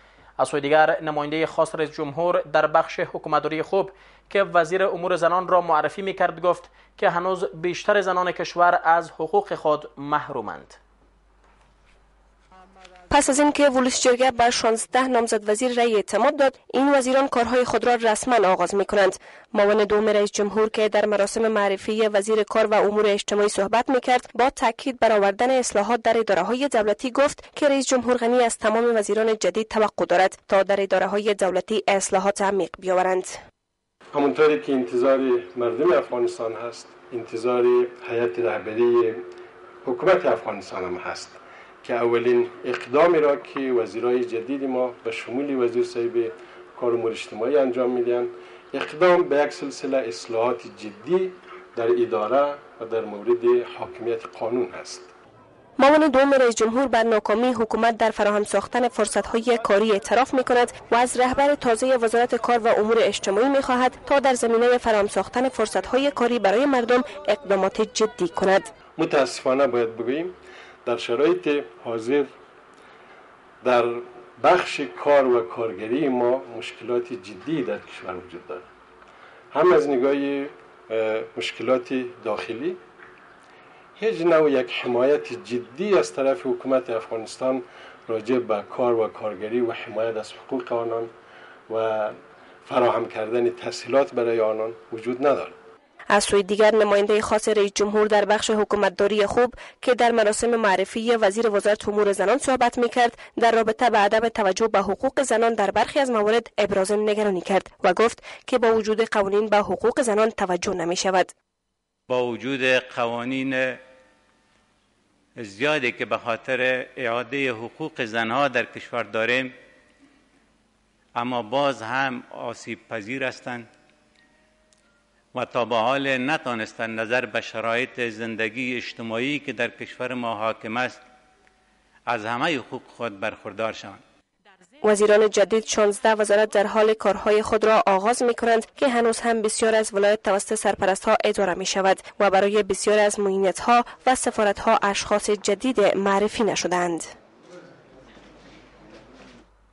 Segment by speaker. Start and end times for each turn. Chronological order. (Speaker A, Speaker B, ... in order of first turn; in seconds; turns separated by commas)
Speaker A: 0.4-10.8, Speaker B: 13.1-33.4, Speaker C: 34.1-39.3, Speaker C: 39.8-55.1, Speaker B: 55.8-68.7, Speaker C: 69.0-72.3, Speaker C: 73.6-78.7, Speaker C: 79.5-82.8, Speaker C: 84.0-91.1, Speaker C: 91.7-95.6, Speaker B: 96.1-111.3, Speaker D: 112.1-113.5, Speaker D: 115.4-119.5, Speaker D: 121.2-123.6, Speaker D: 125.4-130.9, Speaker D: 132.1-133.9, Speaker B: 134.8-147.1